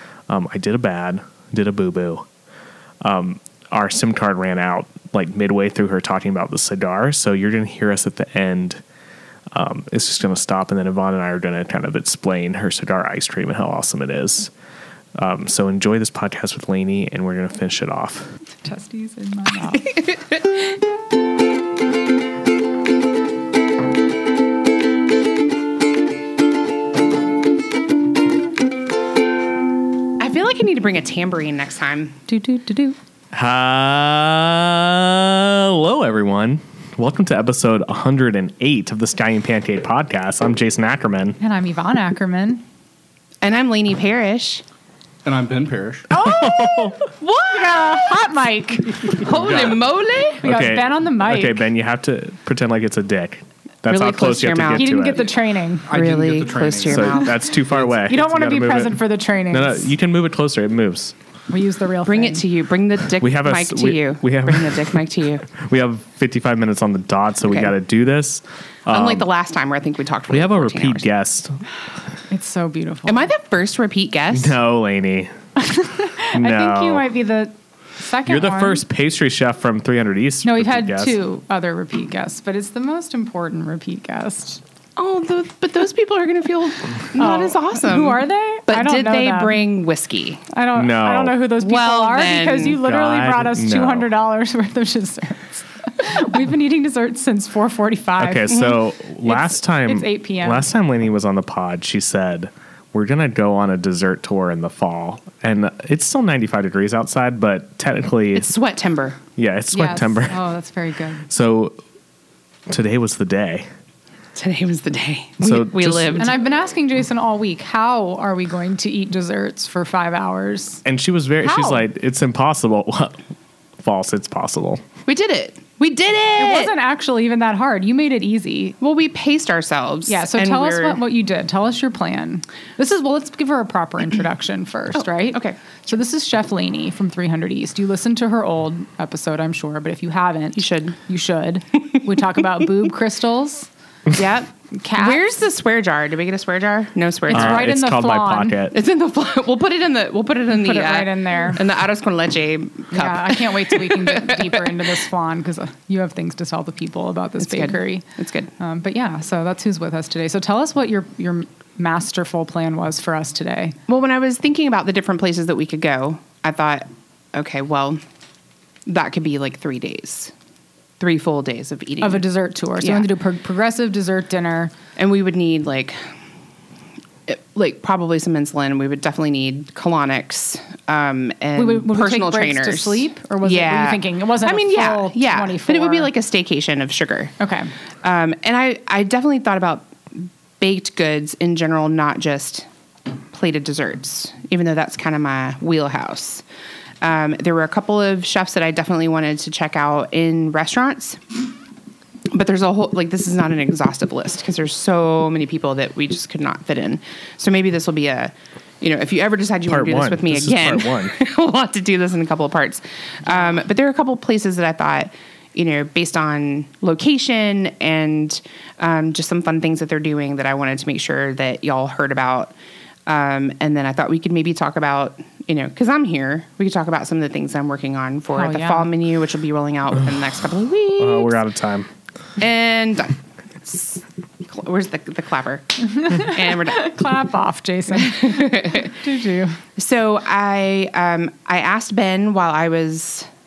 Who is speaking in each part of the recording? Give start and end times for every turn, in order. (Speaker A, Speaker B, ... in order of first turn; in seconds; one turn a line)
Speaker A: 0.3-2.3
Speaker A: 3.0-8.8
Speaker A: 9.5-14.5
Speaker A: 15.2-18.3
Speaker B: 18.6-19.9
Speaker C: 19.7-20.6
Speaker C: 30.2-32.2
Speaker B: 32.3-33.0
Speaker A: 33.3-41.4
Speaker B: 41.4-42.6
Speaker C: 43.4-44.6
Speaker D: 45.2-46.1
Speaker C: 46.1-48.3
Speaker B: 46.3-46.9
Speaker A: 46.4-46.9
Speaker B: 47.5-49.3
Speaker C: 49.1-50.5
Speaker A: 49.3-49.8
Speaker B: 50.4-51.6
Speaker A: 50.4-55.3
Speaker C: 53.9-55.3
Speaker B: 54.8-55.9
Speaker C: 55.9-57.5
Speaker D: 55.9-58.0
Speaker A: 56.9-59.0
Speaker B: 58.1-59.9
Speaker A: 59.5-61.1
Speaker B: 61.5-62.4
Speaker C: 62.1-65.5
Speaker A: 63.2-69.3
Speaker C: 67.5-67.7
Speaker C: 68.9-71.1
Speaker A: 70.3-71.6
Speaker B: 72.3-73.3
Speaker C: 73.1-74.6
Speaker A: 74.3-75.3
Speaker B: 75.6-78.8
Speaker A: 76.3-77.1
Speaker A: 78.3-81.2
Speaker B: 80.4-84.6
Speaker C: 85.0-90.4
Speaker B: 87.2-89.6
Speaker B: 90.5-100.7
Speaker A: 90.8-91.4
Speaker C: 91.6-92.8
Speaker A: 92.8-94.1
Speaker A: 98.2-108.5
Speaker C: 108.3-109.2
Speaker A: 109.4-110.4
Speaker B: 109.7-111.2
Speaker A: 111.3-111.8
Speaker A: 112.7-113.7
Speaker C: 114.3-116.4
Speaker A: 115.4-116.2
Speaker B: 116.2-120.8
Speaker A: 120.8-123.2
Speaker B: 121.4-121.9
Speaker A: 123.8-124.8
Speaker C: 125.1-126.7
Speaker B: 126.4-128.8
Speaker C: 128.8-131.0
Speaker B: 130.1-143.7
Speaker C: 134.9-135.6
Speaker C: 140.6-141.0
Speaker C: 144.1-147.7
Speaker B: 144.8-145.2
Speaker B: 147.3-148.6
Speaker A: 147.3-148.8
Speaker C: 148.7-154.9
Speaker B: 150.5-151.6
Speaker B: 152.9-158.0
Speaker C: 157.4-158.5
Speaker B: 158.6-163.8
Speaker C: 163.9-168.0
Speaker C: 168.9-170.3
Speaker C: 171.0-172.2
Speaker B: 172.0-174.7
Speaker C: 172.8-173.1
Speaker C: 175.0-176.0
Speaker C: 177.3-187.3
Speaker B: 181.6-186.1
Speaker B: 187.4-187.7
Speaker C: 188.0-192.7
Speaker C: 193.3-196.4
Speaker C: 197.0-201.2
Speaker C: 202.3-222.5
Speaker A: 209.7-211.2
Speaker C: 223.1-231.4
Speaker B: 228.3-228.9
Speaker A: 230.9-231.9
Speaker C: 232.4-236.9
Speaker B: 235.9-239.6
Speaker C: 237.9-239.0
Speaker C: 239.8-243.3